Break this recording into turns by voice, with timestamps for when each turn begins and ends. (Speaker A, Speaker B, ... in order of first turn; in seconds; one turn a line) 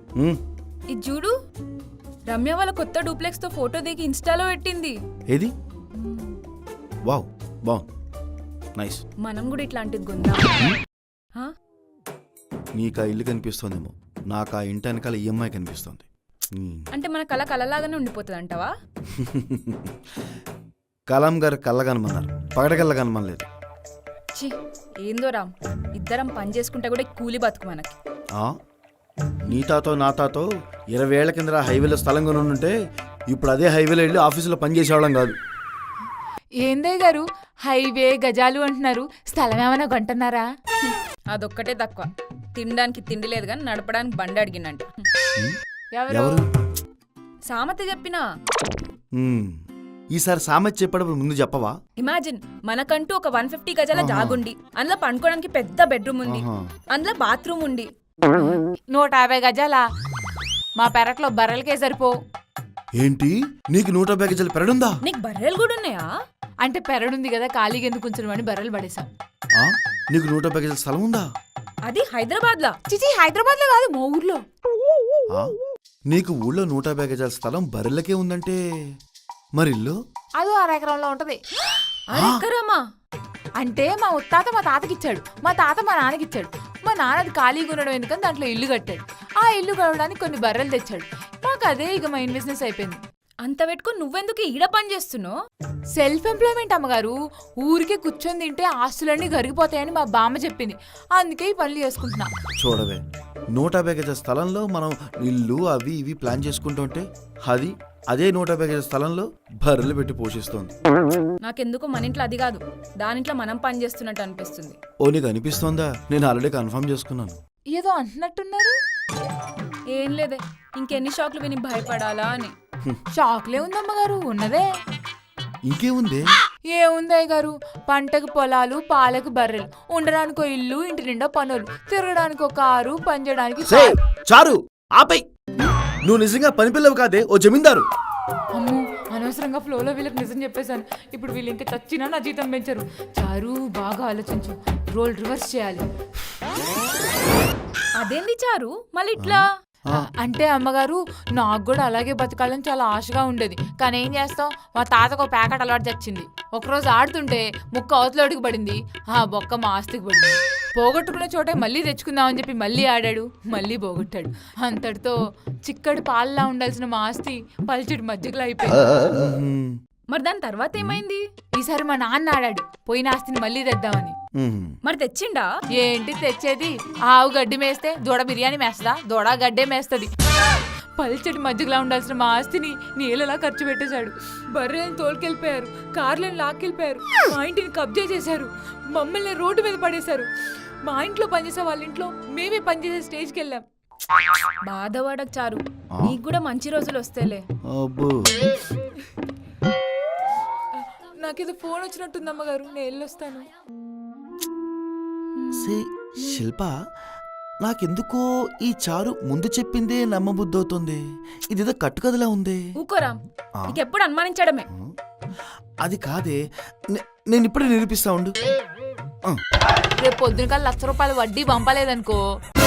Speaker A: 0.9-1.3
Speaker A: 2.3-4.9
Speaker A: 6.0-6.3
Speaker B: 7.0-7.8
Speaker B: 8.8-9.0
Speaker A: 9.2-10.7
Speaker B: 12.8-16.9
Speaker A: 16.9-18.7
Speaker B: 19.1-19.9
Speaker B: 21.1-23.4
Speaker A: 24.4-28.0
Speaker B: 29.4-32.8
Speaker B: 33.3-35.3
Speaker C: 36.6-40.5
Speaker A: 40.8-45.0
Speaker C: 45.9-46.4
Speaker B: 46.1-46.4
Speaker A: 47.5-48.2
Speaker B: 49.2-49.6
Speaker B: 50.1-51.8
Speaker A: 52.0-58.6
Speaker B: 53.9-54.4
Speaker B: 56.2-56.7
Speaker C: 58.5-59.8
Speaker C: 60.8-62.1
Speaker B: 63.0-65.0
Speaker A: 65.0-66.1
Speaker C: 66.6-69.1
Speaker B: 69.5-71.2
Speaker A: 71.9-72.7
Speaker C: 72.9-74.4
Speaker B: 76.1-78.6
Speaker B: 79.5-80.0
Speaker C: 80.4-81.4
Speaker A: 81.7-82.8
Speaker B: 82.1-82.4
Speaker C: 83.6-93.0
Speaker A: 93.4-95.3
Speaker C: 95.9-102.3
Speaker B: 102.6-103.0
Speaker B: 103.5-110.7
Speaker A: 111.4-114.8
Speaker B: 115.0-117.4
Speaker C: 117.7-118.8
Speaker A: 119.9-122.5
Speaker C: 123.1-124.7
Speaker B: 125.6-126.3
Speaker C: 126.7-133.9
Speaker B: 133.7-135.2
Speaker B: 136.0-137.8
Speaker C: 138.5-145.8
Speaker A: 148.0-149.5
Speaker B: 149.2-150.1
Speaker C: 149.9-168.9
Speaker B: 168.7-169.8
Speaker A: 170.1-171.2
Speaker B: 170.8-171.0
Speaker C: 171.5-174.1
Speaker B: 174.3-174.8
Speaker A: 174.8-175.5
Speaker C: 175.7-180.1
Speaker C: 181.0-190.3
Speaker C: 190.8-193.6
Speaker A: 194.6-197.4
Speaker B: 197.7-198.5
Speaker C: 200.8-203.5
Speaker A: 205.3-205.8
Speaker B: 205.5-206.8
Speaker B: 207.6-212.7
Speaker A: 212.8-214.7
Speaker B: 215.8-218.3
Speaker C: 220.0-222.2